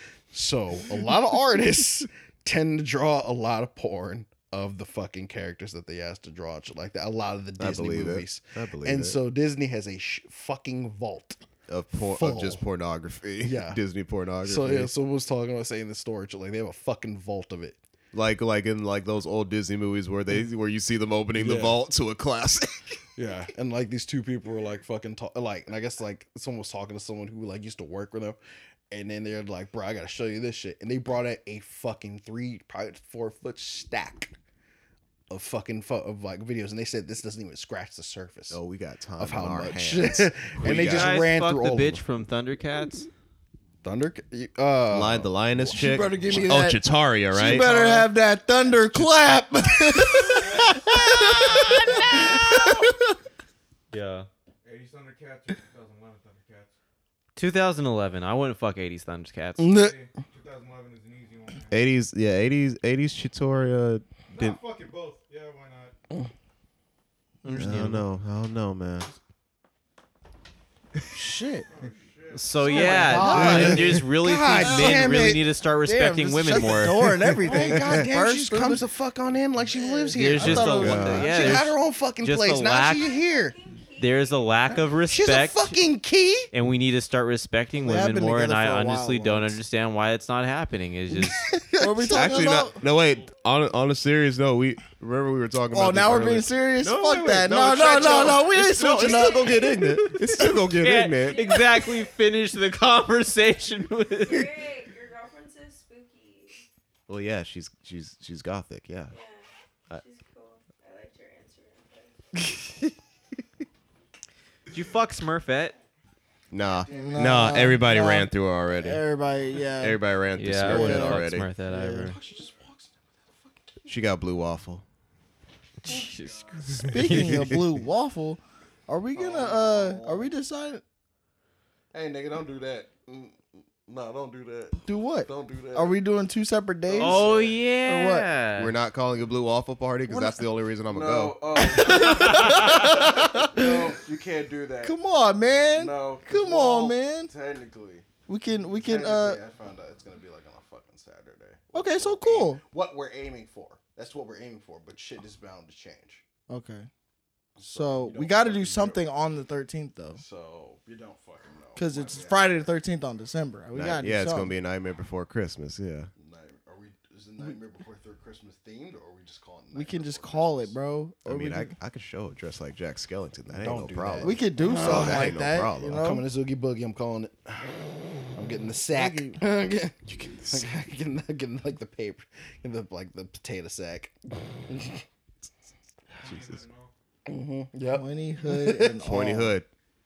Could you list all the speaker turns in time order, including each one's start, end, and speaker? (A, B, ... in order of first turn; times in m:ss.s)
0:00.3-0:11.4 A
0:07.6-0:09.2 B
0:11.7-0:14.9 B
0:12.0-0:12.6 A
0:13.4-0:13.8 A
0:14.4-0:17.8 A
0:18.1-0:22.9 B
0:21.3-0:21.8 A
0:23.2-0:28.4 A
0:28.9-0:34.3 A
0:35.3-0:38.6 A
0:38.5-0:41.2 B
0:39.2-0:42.0 A
0:40.6-0:43.1 C
0:43.8-0:46.5 A
0:44.9-0:47.8 B
0:45.7-0:52.8 D
0:47.5-0:47.9 A
0:50.5-0:50.7 E
0:53.9-0:54.3 C
0:54.6-0:56.7 E
0:57.4-0:59.7 C
0:59.6-1:00.0 A
0:59.7-1:01.9 E
1:01.7-1:04.6 B
1:04.3-1:05.9 E
1:07.4-1:08.0 C
1:07.5-1:09.1 B
1:11.1-1:11.7 D
1:11.7-1:13.4 E
1:12.3-1:17.0 C
1:12.7-1:13.9 D
1:12.7-1:15.4 A
1:13.2-1:13.9 B
1:15.8-1:18.8 D
1:17.4-1:23.6 A
1:19.7-1:21.6 D
1:20.1-1:23.1 C
1:20.4-1:21.3 B
1:22.8-1:24.9 F
1:24.0-1:25.7 C
1:25.1-1:26.5 A
1:26.5-1:31.4 C
1:27.8-1:29.6 D
1:31.2-1:32.6 A
1:31.7-1:32.8 D
1:32.1-1:41.5 B
1:35.7-1:40.5 D
1:40.1-1:44.5 C
1:41.2-1:42.1 F
1:44.2-1:46.6 F
1:47.1-1:49.1 B
1:49.1-1:52.1 F
1:54.7-1:55.8 C
1:56.5-1:59.0 B
1:56.9-1:57.2 E
1:56.9-2:00.0 D
1:59.8-2:01.5 B
2:00.4-2:02.2 C
2:00.6-2:02.1 D
2:02.0-2:03.7 A
2:03.9-2:04.8 B
2:05.8-2:07.5 C
2:06.2-2:06.5 E
2:06.9-2:10.8 D
2:07.0-2:07.4 B
2:09.1-2:10.3 A
2:11.9-2:16.0 A
2:14.8-2:18.3 D
2:16.9-2:17.6 A
2:17.0-2:18.7 C
2:18.6-2:22.0 B
2:20.1-2:20.4 D
2:20.9-2:25.0 A
2:21.6-2:23.9 D
2:24.8-2:27.3 D
2:25.7-2:28.1 A
2:28.3-2:29.4 D
2:28.7-2:36.2 A
2:31.7-2:32.6 D
2:36.5-2:36.9 D
2:37.6-2:39.0 A
2:37.7-2:40.2 D
2:40.2-2:42.5 A
2:41.8-2:44.5 D
2:43.7-2:46.1 B
2:46.2-2:50.8 A
2:49.7-2:51.8 D
2:51.2-2:56.0 B
2:53.5-2:57.7 A
2:54.2-2:56.2 D
2:58.3-3:04.1 A
2:58.9-2:59.4 D
3:00.1-3:00.7 B
3:04.7-3:05.0 A
3:06.1-3:06.9 E
3:07.2-3:09.5 A
3:07.8-3:09.5 D
3:09.0-3:09.7 B